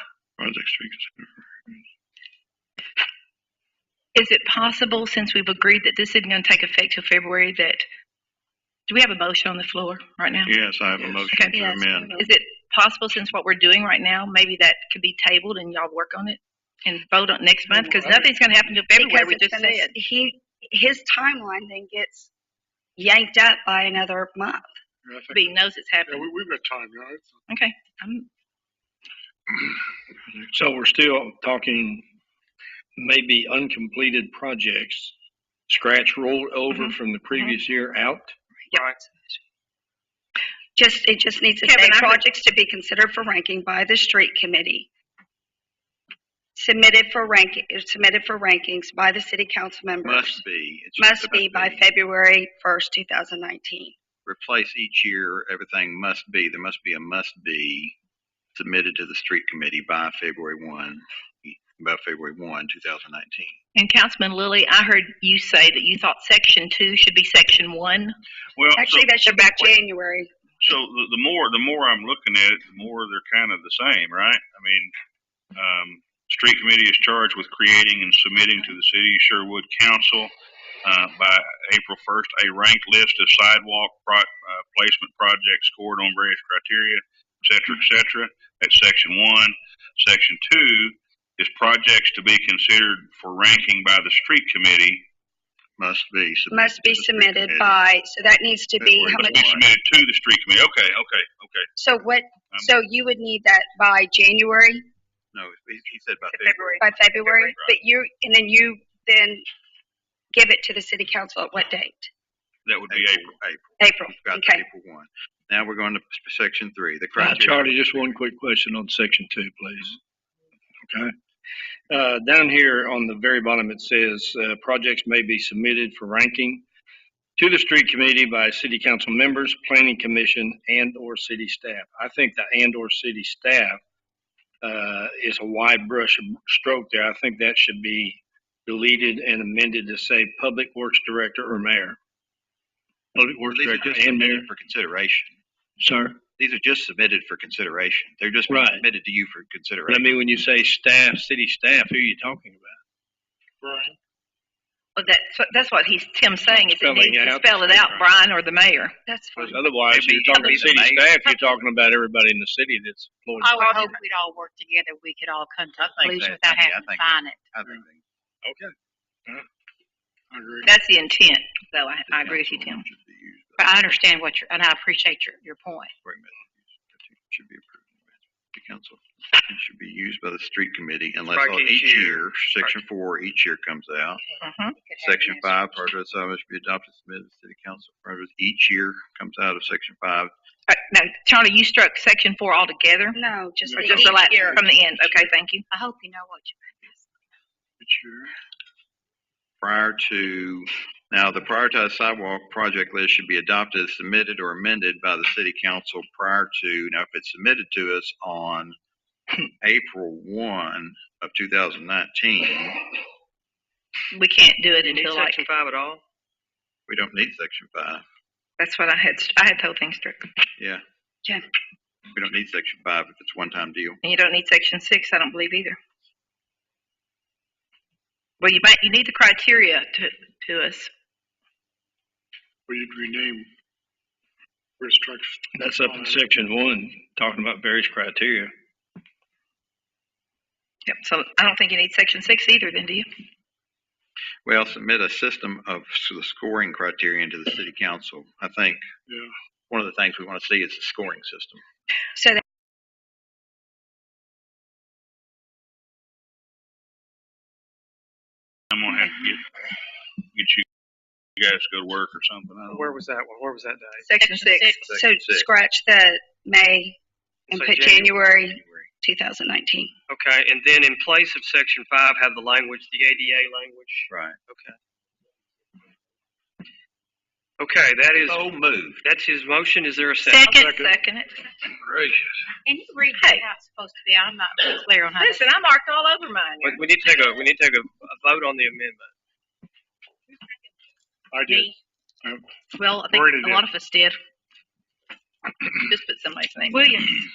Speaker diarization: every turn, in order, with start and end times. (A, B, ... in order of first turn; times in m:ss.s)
0:00.4-0:01.4 A
0:04.1-0:07.8 B
0:08.9-0:10.5 B
0:10.4-0:12.1 A
0:11.3-0:11.5 B
0:11.5-0:12.3 C
0:12.2-0:19.9 B
0:17.7-0:18.4 D
0:18.9-0:22.3 C
0:23.0-0:24.7 C
0:25.0-0:27.3 D
0:25.3-0:26.3 B
0:27.5-0:28.3 B
0:30.3-0:32.0 E
0:33.0-0:35.1 E
0:35.7-0:38.3 E
0:38.6-0:39.4 C
0:38.7-0:39.0 F
0:40.8-0:44.9 C
0:41.6-0:42.2 B
0:46.6-0:50.4 C
0:50.0-0:51.9 A
0:51.0-0:53.9 C
0:54.2-0:57.9 A
0:58.5-1:03.6 A
1:03.7-1:08.1 B
1:08.6-1:09.2 G
1:08.8-1:10.3 C
1:10.6-1:14.9 G
1:15.6-1:20.3 G
1:20.8-1:35.0 G
1:35.8-1:37.8 A
1:36.5-1:39.4 C
1:38.8-1:39.6 A
1:39.2-1:41.7 G
1:41.8-1:44.8 C
1:45.3-1:46.9 A
1:46.3-1:49.4 C
1:47.2-1:47.7 G
1:50.3-1:52.1 C
1:52.6-1:53.3 G
1:52.9-1:58.1 A
1:53.8-1:54.6 C
1:57.2-2:00.0 E
2:00.9-2:01.1 E
2:01.9-2:06.6 E
2:07.4-2:13.8 E
2:14.6-2:22.0 E
2:23.1-2:24.5 E
2:23.5-2:25.4 A
2:25.8-2:26.2 E
2:26.4-2:30.1 A
2:28.5-2:28.8 E
2:29.9-2:32.8 E
2:33.6-2:33.9 D
2:35.0-2:39.0 B
2:36.5-2:37.9 E
2:39.1-2:39.7 C
2:39.4-2:43.9 E
2:39.9-2:41.1 A
2:43.4-2:47.5 H
2:43.6-2:44.0 B
2:45.8-2:48.0 A
2:48.4-2:48.7 E
2:50.3-2:50.7 E
2:50.6-2:52.8 B
2:52.1-2:54.0 A
2:53.6-2:55.9 H
2:56.0-2:58.0 A
2:58.5-3:04.2 A
3:01.3-3:02.8 F
3:04.2-3:05.7 H
3:04.4-3:04.7 B
3:05.0-3:10.3 A
3:10.7-3:13.2 B
3:13.1-3:14.6 C
3:13.6-3:14.6 D
3:13.8-3:15.6 B
3:13.9-3:14.5 H
3:15.7-3:17.0 H
3:17.8-3:18.3 D
3:19.6-3:28.8 A
3:29.6-3:32.8 A
3:34.1-3:35.4 B
3:34.8-3:36.0 F
3:36.9-3:38.0 A
3:38.6-3:40.3 B
3:42.1-3:44.0 A
3:44.0-3:45.8 B
3:48.4-3:50.9 B
3:52.7-3:53.5 D
3:54.8-3:56.4 D
3:55.5-3:58.5 E
4:00.9-4:03.1 B
4:04.4-4:08.8 A
4:09.7-4:11.6 A
4:12.2-4:12.4 C
4:18.7-4:19.4 G
4:20.3-4:20.6 G
4:21.4-4:23.0 G
4:22.7-4:24.1 F
4:24.0-4:24.8 B
4:24.2-4:24.9 H
4:24.8-4:25.5 A
4:24.9-4:26.9 C
4:27.5-4:29.9 C
4:27.5-4:28.4 F
4:28.5-4:28.8 A
4:30.1-4:34.8 F
4:34.1-4:34.4 A
4:37.6-4:38.5 F
4:38.2-4:39.0 A
4:39.0-4:40.5 F
4:40.2-4:41.4 B
4:40.5-4:40.9 D
4:42.6-4:45.5 H
4:43.2-4:43.5 B
4:45.2-4:46.8 B
4:46.6-4:49.1 F
4:51.3-4:51.7 D
4:51.4-4:51.7 H
4:52.8-4:54.2 B
4:53.0-4:53.7 D
4:53.2-4:53.6 H
4:55.8-4:57.0 B
4:56.7-4:57.2 H